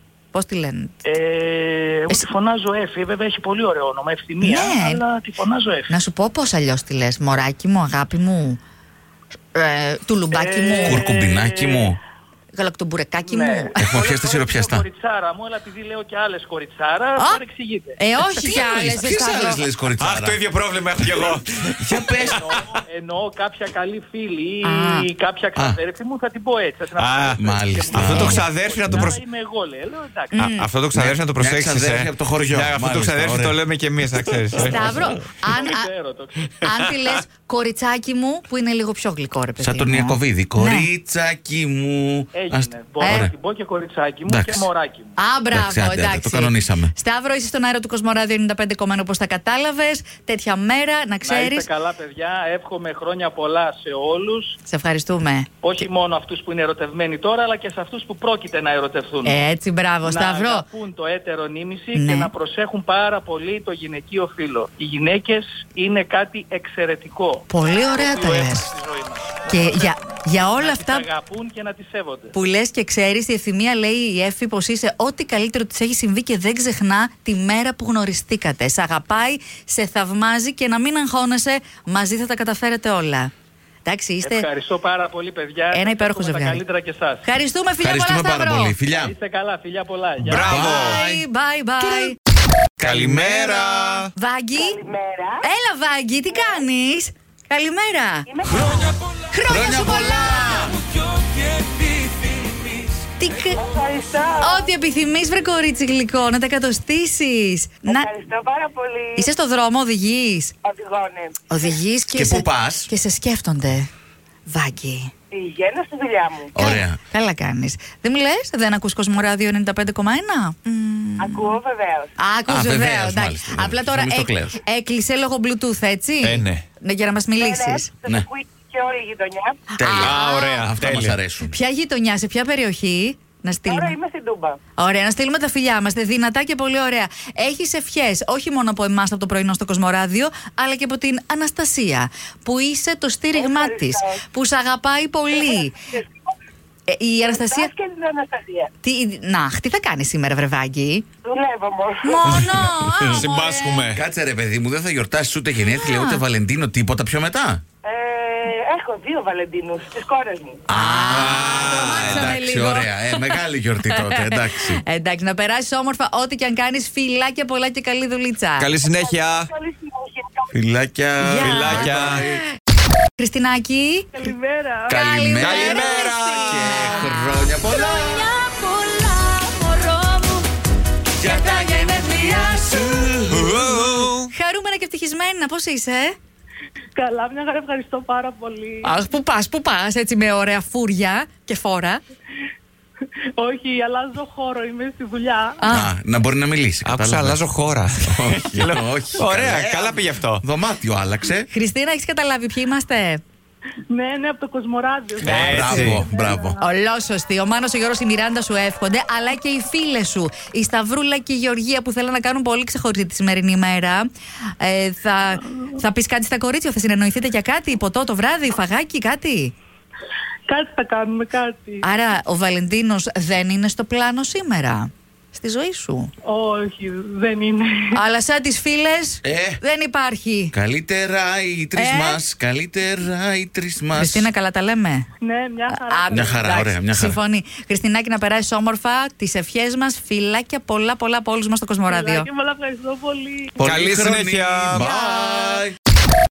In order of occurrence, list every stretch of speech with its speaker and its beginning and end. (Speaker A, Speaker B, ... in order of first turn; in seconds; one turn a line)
Speaker A: 0.3-0.9
Speaker B: 1.0-5.9
Speaker A: 4.4-5.0
Speaker A: 5.9-8.6
Speaker A: 9.5-11.0
Speaker B: 10.3-12.0
Speaker C: 10.8-12.0
Speaker A: 12.5-13.8
Speaker B: 13.2-18.0
Speaker C: 13.8-14.8
Speaker A: 18.0-19.6
Speaker C: 18.4-20.4
Speaker D: 20.0-22.6
Speaker C: 21.8-22.4
Speaker B: 22.4-30.4
Speaker A: 24.6-25.1
Speaker D: 26.9-29.2
Speaker C: 27.4-29.1
Speaker A: 30.4-30.7
Speaker D: 30.4-35.1
Speaker C: 30.9-33.6
Speaker A: 34.6-35.9
Speaker B: 35.5-36.5
Speaker A: 36.6-40.9
Speaker C: 39.6-43.3
Speaker B: 42.3-45.1
Speaker C: 44.3-44.7
Speaker A: 45.2-51.7
Speaker C: 45.5-46.9
Speaker B: 51.2-54.5
Speaker A: 54.6-55.5
Speaker B: 55.6-59.4
Speaker A: 59.2-60.6
Speaker B: 60.0-69.9
Speaker A: 61.9-62.3
Speaker A: 67.5-68.7
Speaker A: 69.5-71.1
Speaker B: 70.5-72.3
Speaker A: 72.3-83.3
Speaker A: 83.8-84.4
Speaker B: 84.2-87.2
Speaker A: 85.7-86.6
Speaker A: 87.2-88.7
Speaker C: 87.8-89.1
Speaker B: 88.9-90.6
Speaker D: 90.2-91.0
Speaker C: 90.3-91.2
Speaker A: 90.5-92.1
Speaker C: 91.8-92.1
Speaker C: 92.8-94.1
Speaker D: 92.8-94.1
Speaker A: 94.2-94.8
Speaker E: 94.5-95.4
Speaker A: 95.4-100.7
Speaker E: 98.3-98.8
Speaker C: 99.5-100.8
Speaker C: 101.8-102.9
Speaker A: 103.2-103.7
Speaker E: 103.5-104.7
Speaker A: 104.4-108.1
Speaker E: 107.8-109.3
Speaker A: 109.2-110.5
Speaker E: 110.6-111.4
Speaker A: 111.5-113.9
Speaker C: 112.1-112.9
Speaker A: 114.5-115.1
Speaker E: 115.3-116.5
Speaker C: 116.5-117.0
Speaker A: 116.5-121.6
Speaker E: 121.2-122.1
Speaker A: 122.2-127.9
Speaker C: 122.5-124.6
Speaker D: 126.2-126.6
Speaker E: 127.4-129.6
Speaker A: 129.8-130.7
Speaker C: 129.8-131.5
Speaker D: 130.0-131.2
Speaker A: 131.4-134.0
Speaker E: 133.7-134.6
Speaker A: 134.8-145.8
Speaker E: 143.3-144.2
Speaker E: 145.3-146.1
Speaker A: 146.9-147.7
Speaker E: 147.2-148.7
Speaker A: 148.8-151.0
Speaker E: 151.2-152.2
Speaker A: 152.0-153.9
Speaker D: 152.2-154.0
Speaker C: 153.9-157.6
Speaker A: 155.8-156.2
Speaker E: 157.8-160.6
Speaker C: 160.7-164.8
Speaker A: 160.7-168.7
Speaker D: 161.1-162.3
Speaker D: 168.6-169.5
Speaker E: 169.0-170.5
Speaker C: 170.5-172.4
Speaker A: 171.2-172.1
Speaker D: 171.4-172.2
Speaker A: 173.2-174.1
Speaker F: 174.2-174.8
Speaker C: 174.9-178.4
Speaker A: 174.9-180.4
Speaker D: 175.4-177.2
Speaker C: 181.2-183.8
Speaker A: 181.2-183.1
Speaker D: 183.3-184.3
Speaker A: 184.3-186.2
Speaker B: 187.7-188.4
Speaker A: 188.8-192.0
Speaker B: 194.5-195.2
Speaker A: 195.6-195.9
Speaker C: 195.7-197.4
Speaker D: 196.8-200.4
Speaker C: 198.1-201.5
Speaker A: 201.5-203.2
Speaker B: 203.9-205.8
Speaker D: 205.2-206.0
Speaker C: 205.2-206.6
Speaker F: 205.7-206.4
Speaker A: 206.6-214.1
Speaker A: 214.6-219.5
Speaker F: 220.5-221.8
Speaker A: 221.8-226.1
Speaker A: 227.9-230.5
Speaker C: 229.2-229.6
Speaker C: 230.5-234.3
Speaker A: 231.8-232.2
Speaker A: 233.9-235.1
Speaker F: 235.4-236.0
Speaker A: 235.7-242.3
Speaker C: 236.1-237.2
Speaker F: 242.0-243.5
Speaker C: 243.6-245.7
Speaker D: 243.6-244.9